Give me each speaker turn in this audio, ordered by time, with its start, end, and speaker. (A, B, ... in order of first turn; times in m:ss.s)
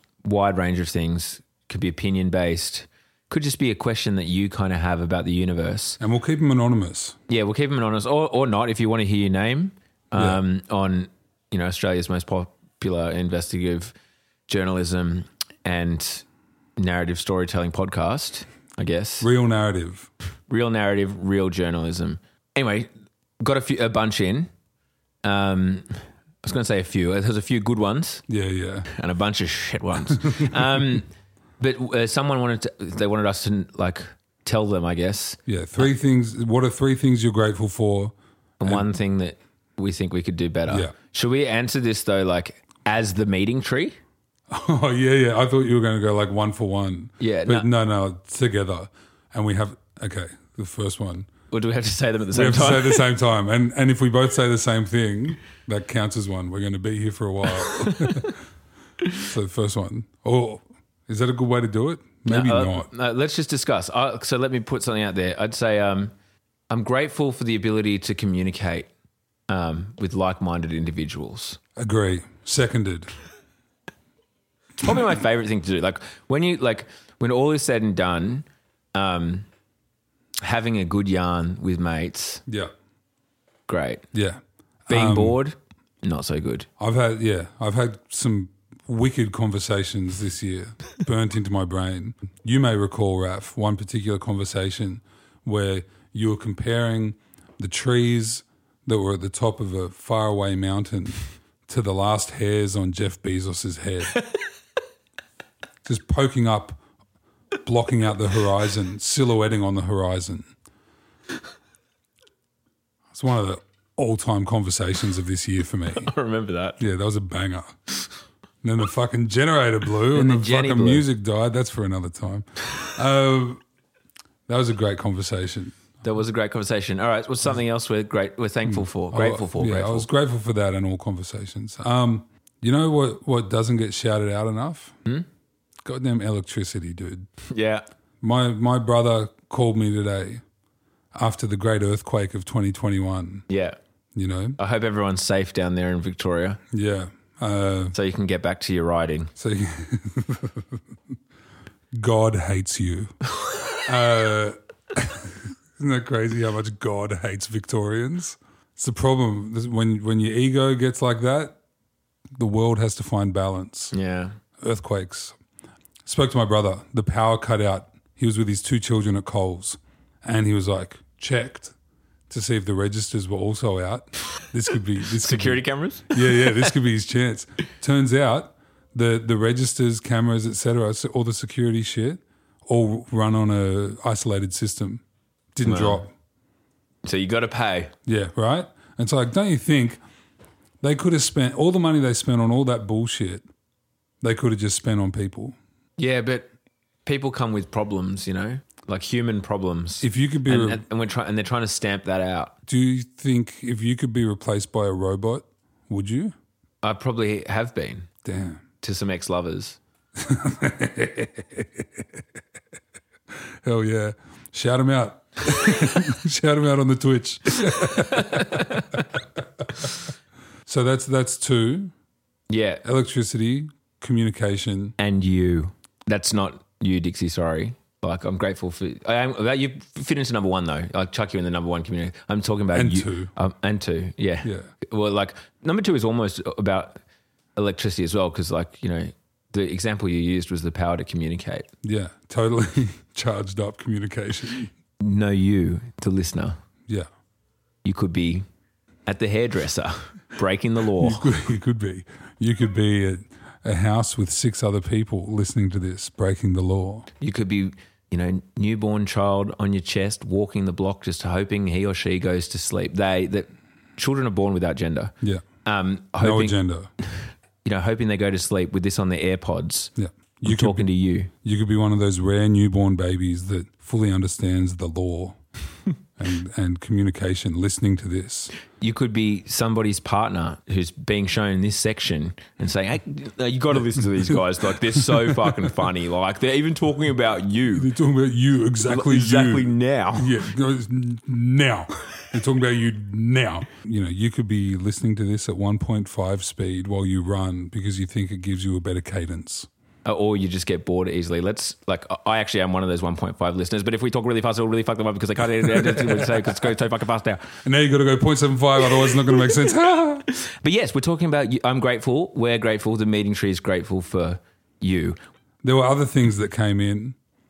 0:00.2-0:06.0 A
0:06.0-0:07.2 B
0:07.3-0:13.9 A
0:14.5-0:16.2 A
0:16.8-0:19.3 A
0:19.2-0:20.1 B
0:20.5-0:22.9 A
0:23.4-0:24.5 A
0:25.2-0:28.2 A
0:28.3-0:28.9 B
0:28.9-0:31.1 A
0:30.1-0:30.8 B
0:31.6-0:35.9 A
0:35.5-0:38.1 B
0:38.6-0:44.0 A
0:40.7-0:40.9 B
0:44.5-0:51.3 B
0:47.2-0:47.7 A
0:51.5-0:53.1 A
0:52.3-0:58.4 B
0:57.6-0:58.2 A
0:59.2-1:02.9 B
1:02.3-1:06.1 A
1:06.7-1:08.9 A
1:09.5-1:11.6 A
1:11.8-1:13.1 B
1:14.8-1:19.5 A
1:20.4-1:22.4 A
1:23.7-1:24.1 A
1:24.1-1:25.4 B
1:24.9-1:26.7 A
1:26.8-1:44.2 B
1:45.8-1:46.8 B
1:47.6-1:50.5 B
1:53.1-1:56.1 B
1:56.0-1:56.8 A
1:56.8-1:57.8 B
1:58.6-2:03.6 B
2:00.1-2:01.0 A
2:04.5-2:05.8 B
2:06.0-2:10.1 A
2:08.7-2:15.0 B
2:15.8-2:17.3 B
2:17.5-2:17.8 A
2:18.2-2:20.4 B
2:21.2-2:23.5 B
2:23.5-2:23.8 A
2:24.2-2:24.6 B
2:24.6-2:26.6 A
2:26.7-2:28.0 B
2:27.9-2:29.3 A
2:29.4-2:30.7 B
2:31.9-2:33.1 B
2:33.8-2:41.6 B
2:42.4-2:43.9 B
2:43.9-2:44.4 A
2:44.6-2:45.4 B
2:46.1-2:51.7 B
2:52.3-2:55.6 B
2:55.2-2:56.7 A
2:56.1-3:05.0 B
3:05.6-3:06.1 B
3:05.6-3:06.0 A
3:07.0-3:07.9 A
3:08.1-3:10.0 B
3:10.8-3:13.4 B
3:14.2-3:15.6 B
3:16.0-3:16.5 A
3:17.1-3:22.5 A
3:20.0-3:20.8 B
3:22.7-3:26.3 B
3:26.8-3:28.1 A
3:28.2-3:28.6 B
3:28.8-3:29.8 A
3:30.2-3:32.0 B
3:33.6-3:38.7 B
3:37.7-3:39.0 A
3:40.7-3:41.9 B
3:42.5-3:42.8 A
3:42.8-3:45.0 B
3:45.0-3:57.0 A
3:52.7-3:53.3 B
3:54.4-3:54.7 B
3:57.6-4:01.7 A
4:01.8-4:04.7 B
4:05.0-4:06.6 A
4:07.8-4:08.4 A
4:09.1-4:11.2 A
4:11.0-4:17.1 B
4:17.2-4:25.1 A
4:25.6-4:26.6 A
4:26.2-4:26.9 B
4:27.6-4:29.9 A
4:30.0-4:30.9 B
4:30.4-4:31.3 A
4:31.4-4:35.4 B
4:36.2-4:38.5 B
4:38.8-4:47.9 A
4:44.9-4:45.5 B
4:47.7-4:59.7 B
4:48.9-4:50.4 A
5:00.0-5:07.6 A
5:05.7-5:06.4 B
5:07.6-5:10.3 B
5:08.9-5:09.8 A
5:10.3-5:15.2 A
5:15.6-5:17.2 B